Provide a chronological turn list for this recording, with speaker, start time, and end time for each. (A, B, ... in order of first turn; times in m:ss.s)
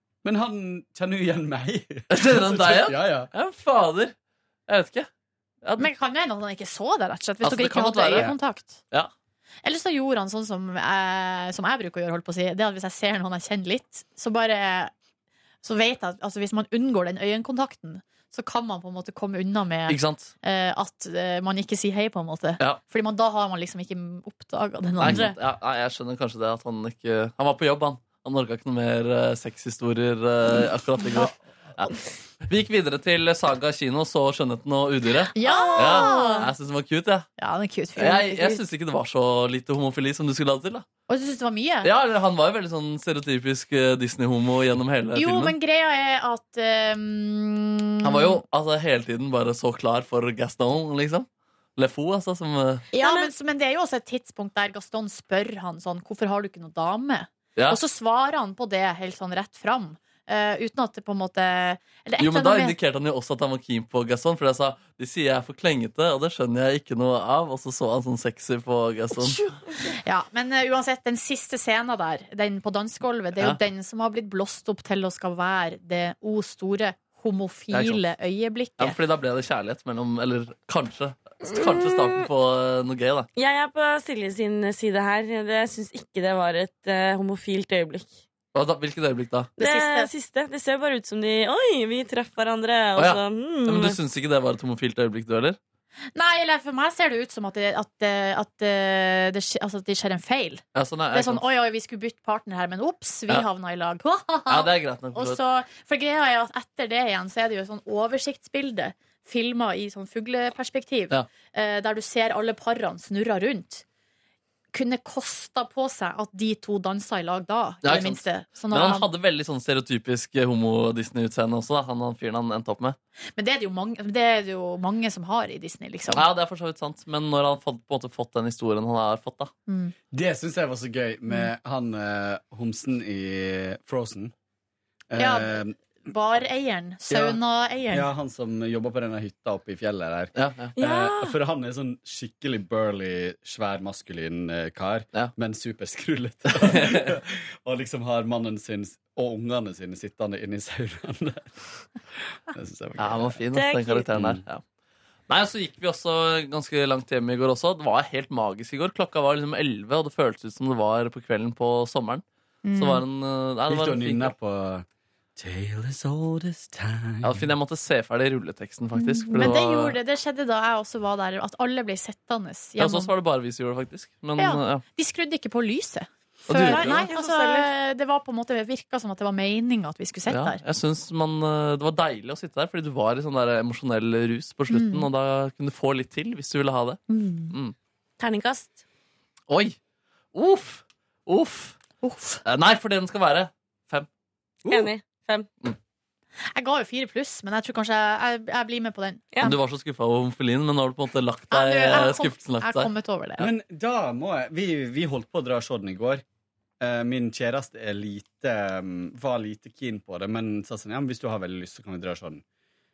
0:00.2-0:03.3 A
0:02.1-0:04.1 B
0:04.7-0:05.1 B
0:05.6-0:05.9 B
0:05.8-0:08.8 C
0:07.4-0:08.3 B
0:09.6-0:14.9 C
0:15.6-0:25.4 C
0:19.9-0:20.3 B
0:25.0-0:31.9 B
0:32.4-0:37.3 B
0:35.3-0:36.5 C
0:35.4-0:36.5 D
0:37.4-0:38.6 C
0:38.0-0:40.8 B
0:41.1-0:41.9 C
0:41.8-0:45.5 B
0:45.2-0:48.4 C
0:48.0-0:52.9 B
0:52.9-0:53.3 D
0:52.9-1:02.8 C
1:02.2-1:09.4 B
1:09.9-1:19.0 C
1:17.7-1:18.0 B
1:18.8-1:23.3 B
1:21.5-1:22.2 D
1:23.4-1:28.2 D
1:28.5-1:29.5 B
1:29.6-1:30.1 C
1:29.6-1:34.0 D
1:33.0-1:35.6 B
1:36.2-1:53.8 C
1:40.7-1:41.4 B
1:44.5-1:45.4 B
1:54.7-1:59.1 C
1:57.8-2:03.0 B
2:03.4-2:06.2 C
2:06.1-2:09.5 B
2:09.7-2:09.9 C
2:10.1-2:14.3 A
2:15.1-2:15.8 A
2:15.2-2:18.1 C
2:17.1-2:17.4 A
2:17.9-2:31.5 A
2:20.3-2:20.8 B
2:20.8-2:21.4 D
2:26.6-2:27.1 B
2:32.5-2:33.4 A
2:33.0-2:34.6 B
2:33.5-2:34.0 D
2:34.1-2:34.4 A
2:35.3-2:42.2 B
2:42.6-2:43.0 C
2:42.8-2:44.3 B
2:43.7-2:44.8 A
2:45.4-2:47.5 A
2:47.2-2:50.0 B
2:49.0-2:53.1 C
2:52.8-2:54.8 B
2:54.4-3:00.6 C
2:56.5-2:57.1 B
2:56.5-2:57.7 D
3:00.3-3:07.7 B
3:04.7-3:05.1 C
3:07.1-3:07.5 C
3:08.2-3:08.8 D
3:09.5-3:09.8 B
3:10.3-3:11.8 B
3:12.0-3:12.4 C
3:12.4-3:14.1 B
3:14.7-3:15.5 D
3:16.5-3:19.6 C
3:19.4-3:22.9 B
3:21.5-3:23.5 C
3:23.4-3:26.2 A
3:26.8-3:32.4 A